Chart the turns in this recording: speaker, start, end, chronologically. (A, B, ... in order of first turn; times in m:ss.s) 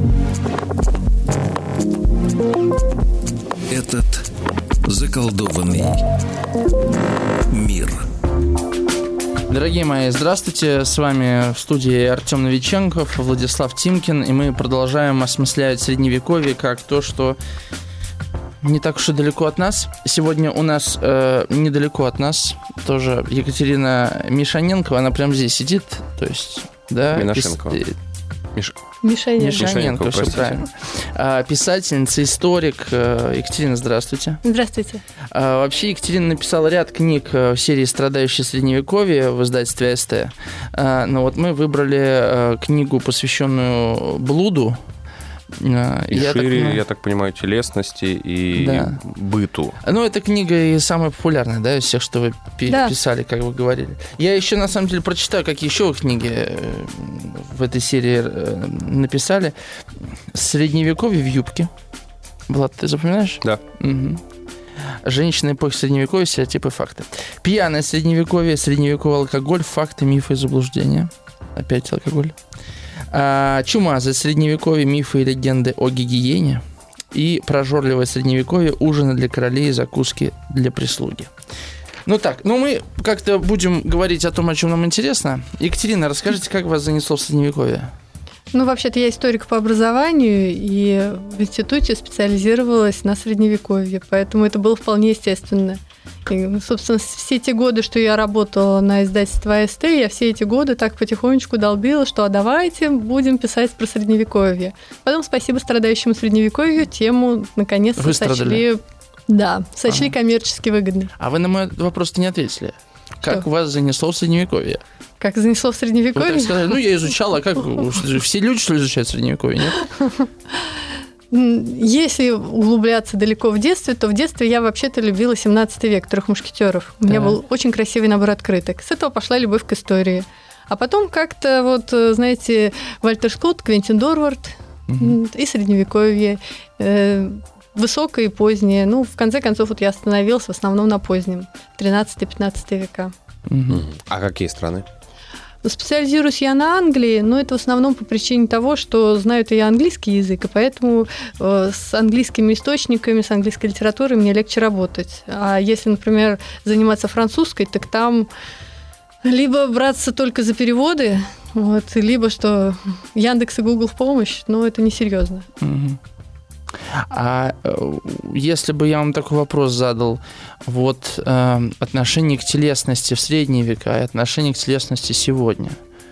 0:03.7-0:04.3 A
0:04.8-0:06.0 A
0:07.5-0:08.1 A
0:09.5-0:17.4 B
0:18.6-0:27.9 B
0:27.1-0:27.8 C
0:29.0-0:29.7 D
0:29.4-0:34.4 B
0:29.6-0:30.7 C
0:34.4-0:35.0 D
0:35.3-0:44.8 B
0:45.6-0:46.8 B
0:46.1-0:49.8 C
0:48.6-0:49.0 B
0:49.8-1:01.7 B
0:52.7-0:52.9 D
1:02.5-1:04.2 B
1:05.0-1:12.4 B
1:13.1-1:21.3 B
1:22.1-1:27.9 B
1:28.5-1:51.1 D
1:48.0-1:48.6 B
1:51.2-1:54.8 B
1:55.2-1:56.8 D
1:56.2-1:59.8 B
1:59.8-2:00.3 D
2:01.3-2:23.1 D
2:07.1-2:07.4 B
2:14.9-2:15.2 B
2:23.5-2:23.8 B
2:23.7-2:24.9 C
2:25.6-2:38.3 D
2:39.2-2:45.5 D
2:45.6-2:46.0 B
2:46.9-2:55.8 B